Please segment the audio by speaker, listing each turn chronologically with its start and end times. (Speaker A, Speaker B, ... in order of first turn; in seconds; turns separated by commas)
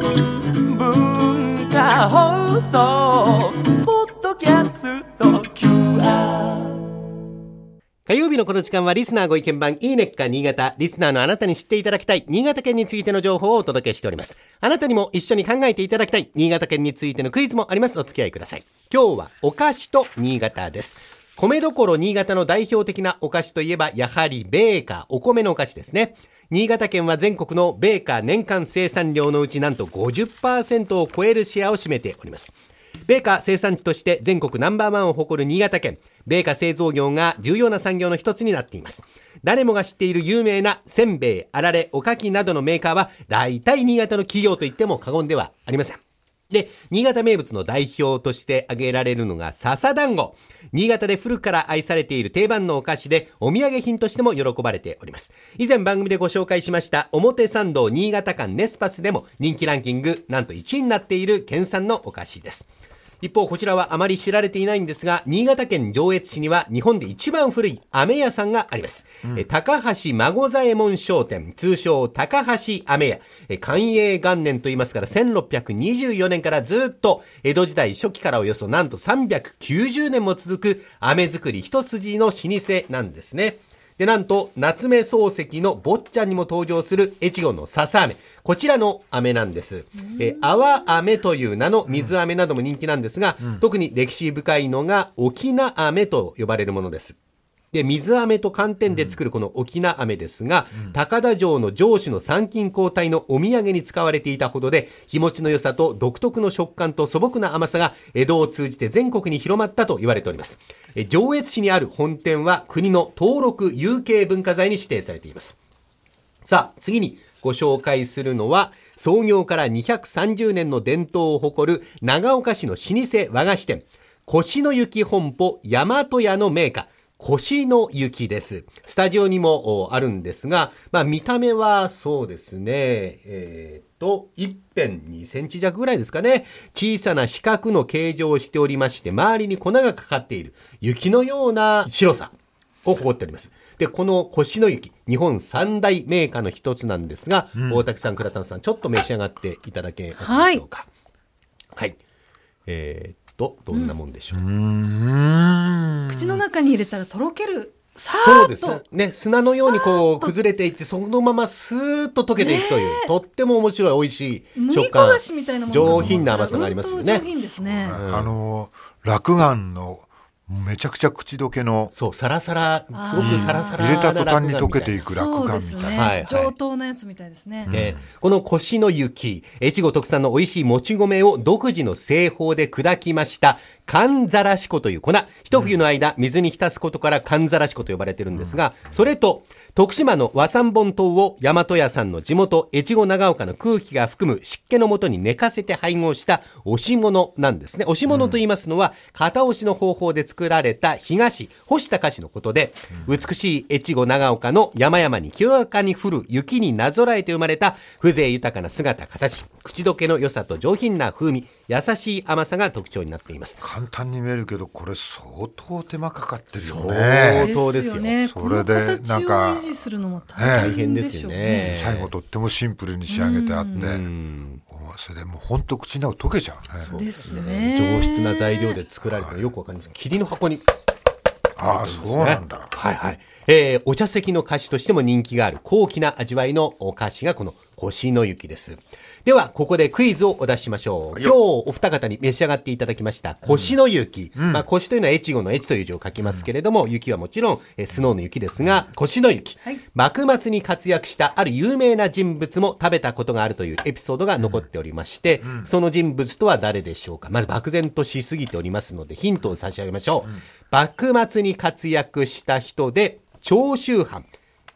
Speaker A: 0.6-6.8, Speaker B: 8.1-32.5, Speaker B: 33.0-62.7, Speaker B: 63.2-97.2, Speaker B: 97.7-115.6, Speaker B: 116.4-142.3, Speaker B: 142.8-150.9, Speaker C: 147.6-147.8, Speaker D: 150.2-150.6, Speaker B: 152.7-154.4, Speaker C: 154.3-156.4, Speaker D: 156.1-158.8, Speaker B: 158.1-167.2, Speaker D: 159.4-160.3, Speaker D: 162.4-163.1, Speaker D: 164.6-168.0, Speaker C: 165.7-166.5, Speaker C: 167.6-171.9, Speaker B: 167.9-168.3, Speaker B: 171.9-175.1, Speaker D: 172.9-173.8, Speaker C: 173.2-176.1, Speaker D: 175.1-177.7, Speaker B: 175.9-176.5, Speaker C: 177.7-178.0, Speaker B: 177.7-213.6, Speaker C: 198.1-198.4, Speaker C: 213.6-217.5, Speaker B: 216.6-218.1, Speaker D: 217.3-221.8, Speaker C: 218.2-220.8, Speaker B: 220.4-222.1, Speaker C: 221.6-224.1, Speaker D: 223.1-223.9, Speaker B: 223.7-224.6, Speaker C: 224.7-227.1, Speaker B: 226.8-230.7, Speaker D: 226.9-228.8, Speaker C: 229.1-229.4, Speaker C: 231.6-232.7, Speaker B: 231.6-264.3